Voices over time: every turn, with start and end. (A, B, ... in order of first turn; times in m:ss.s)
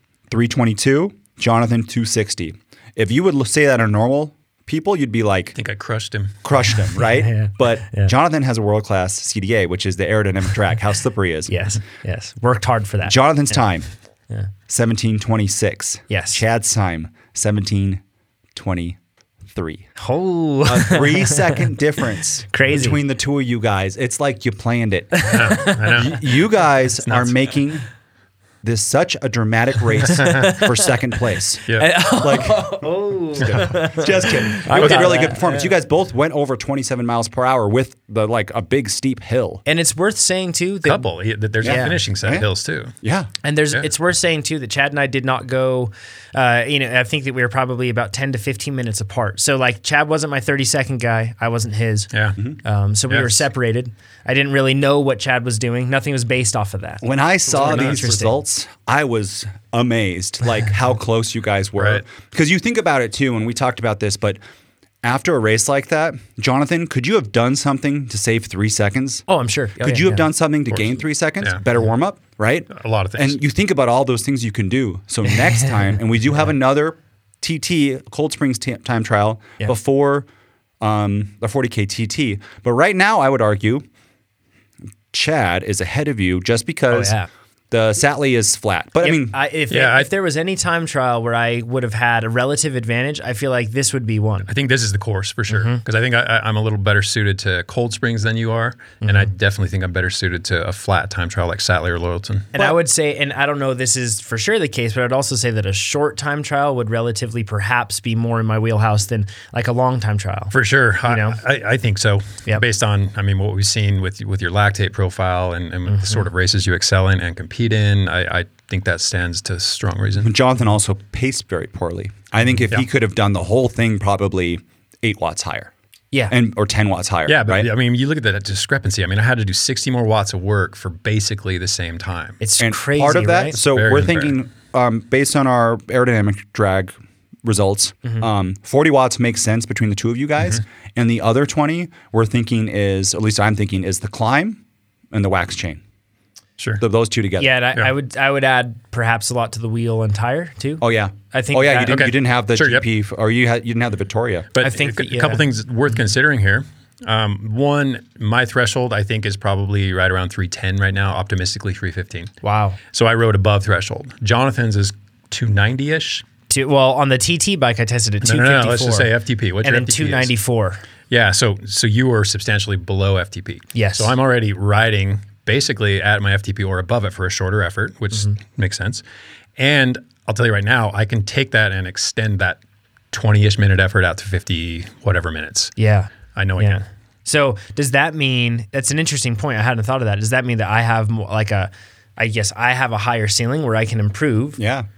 0:00.3-0:05.5 A
0:05.5-0:06.4 B
0:06.4-0:11.5 A
0:07.0-0:08.1 C
0:11.5-0:13.2 C
0:13.0-0:13.9 A
0:14.7-0:18.0 A
0:16.1-0:16.4 C
0:18.5-0:19.9 A
0:20.0-0:21.7 C
0:20.6-0:27.8 A
0:22.5-0:23.0 C
0:25.1-0:26.1 C
0:25.3-0:26.3 B
0:27.0-0:27.4 B
0:28.6-0:32.8 A
0:30.0-0:30.9 C
0:31.7-0:35.7 C
0:33.4-0:39.6 A
0:34.7-0:35.3 B
0:39.6-0:41.1 C
0:40.8-0:42.9 B
0:41.6-0:42.4 A
0:41.6-0:42.0 C
0:43.0-0:43.3 A
0:43.4-0:52.1 C
0:52.1-0:52.4 B
0:52.6-0:58.4 C
0:53.1-0:53.4 B
0:57.0-1:04.4 A
0:57.6-0:58.1 B
1:01.8-1:02.0 B
1:05.0-1:09.2 A
1:09.3-1:10.2 C
1:09.8-1:20.3 A
1:10.7-1:11.6 B
1:12.7-1:13.4 B
1:15.5-1:15.8 C
1:20.8-1:23.8 A
1:25.1-1:27.2 A
1:26.9-1:27.3 C
1:27.7-1:29.4 A
1:29.0-1:34.5 C
1:29.7-1:30.1 B
1:34.4-1:42.5 B
1:35.5-1:35.8 C
1:39.0-1:39.3 C
1:42.5-1:50.5 C
1:50.5-2:00.3 B
1:51.1-1:51.4 C
1:55.9-1:56.3 C
2:00.2-2:05.7 A
2:06.3-2:07.7 A
2:07.3-2:12.4 B
2:12.4-2:13.6 C
2:12.6-2:16.9 A
2:13.6-2:14.3 B
2:17.4-2:24.6 A
2:25.1-2:25.8 A
2:26.8-2:27.5 A
2:27.4-2:32.0 C
2:30.8-2:34.5 A
2:31.9-2:32.8 B
2:34.5-2:42.3 B
2:34.6-2:35.4 C
2:42.4-2:42.8 C
2:42.9-2:46.2 B
2:46.5-2:49.1 C
2:48.2-2:50.3 B
2:49.6-2:50.8 C
2:51.1-2:59.0 B
2:53.7-2:54.1 C
2:59.6-3:02.6 B
3:03.1-3:05.7 B
3:05.8-3:14.6 C
3:06.3-3:06.8 B
3:14.6-3:14.9 A